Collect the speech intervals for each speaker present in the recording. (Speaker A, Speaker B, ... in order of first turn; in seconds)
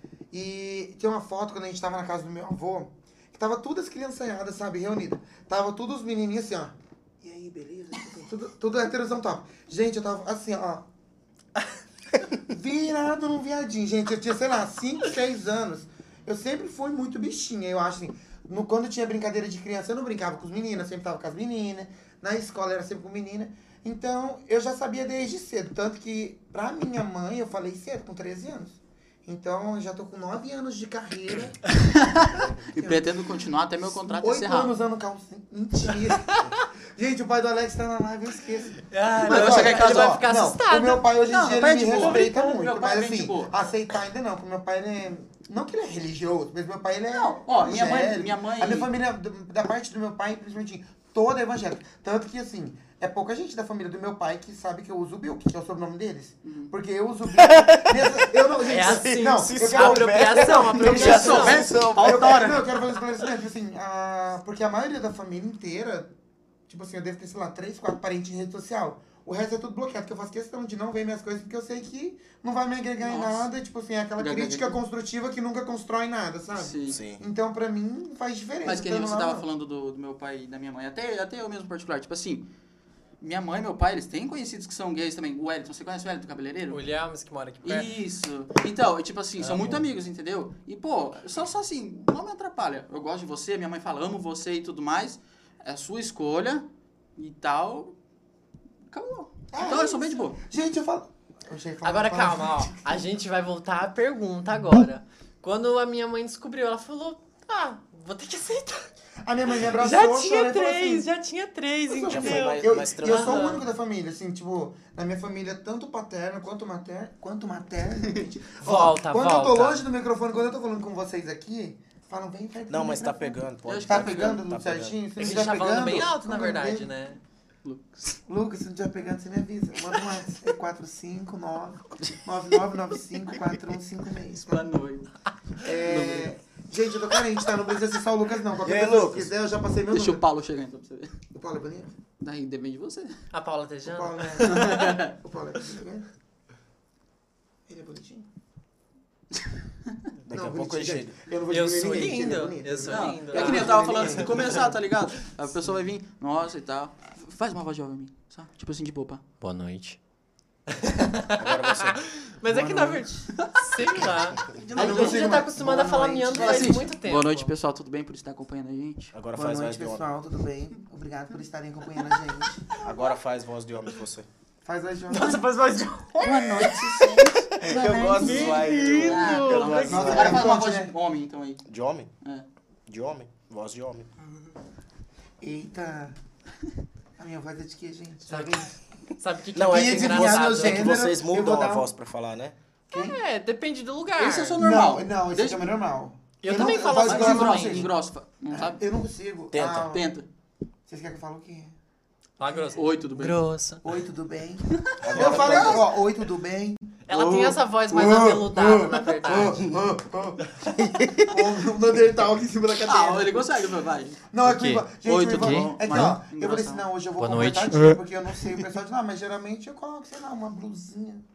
Speaker A: 0.3-10.9, 12.4-31.6, 32.7-33.1, 34.0-66.1, 66.7-79.5, 99.5-102.8, 109.2-111.1, 111.9-126.9, 128.3-134.6, 135.6-140.2, 141.3-141.9, 143.8-146.1, 147.7-148.3, 150.3-154.7, 162.4-163.1, 164.7-166.9, 169.3-172.7, 174.6-175.4, 176.2-180.9, 185.4-186.2, 187.2-188.7, 189.6-191.9, 192.9-193.2, 194.6-197.9, 198.5-200.1, 200.9-201.7, 202.5-202.8, 203.8-213.5, 214.3-221.2
Speaker B: 31.8-34.7, 39.2-40.2, 41.3-43.5, 47.1-48.9, 56.4-56.7, 60.8-62.8, 73.0-73.5, 74.2-74.8, 76.5-77.0, 78.6-82.5, 83.2-86.8, 87.6-97.9, 98.9-100.4, 123.6-124.4, 127.6-128.2, 134.4-135.1, 135.6-136.3, 139.9-141.2, 142.2-143.2, 144.4-145.1, 152.8-159.2, 163.3-163.7, 164.5-165.4, 166.3-169.1, 176.2-181.6, 194.2-195.7, 197.0-198.8, 199.6-200.3, 202.7-203.4, 204.9-205.8, 207.1-207.5, 212.8-214.2, 215.0-216.9
Speaker C: 38.9-41.1, 42.0-42.3, 58.6-61.7, 86.7-87.9, 89.4-89.8, 101.8-108.9, 109.6-113.6, 118.6-119.8, 125.2-127.2, 143.3-145.0, 151.5-154.5, 159.4-160.0, 160.7-167.5, 175.1-177.3, 178.1-180.4, 188.3-188.6, 189.2-190.9, 192.9-194.6, 196.4-197.9, 202.4-203.8, 207.1-209.7, 214.4-216.2, 217.2-218.0
Speaker D: 57.4-62.6, 76.9-77.2, 112.0-113.5, 122.7-125.0, 138.6-139.3, 150.2-151.1, 161.3-162.0, 169.1-170.1, 172.8-174.3, 177.6-180.5, 181.7-182.1, 182.9-184.1, 189.5-192.6, 199.5-199.9, 205.0-205.8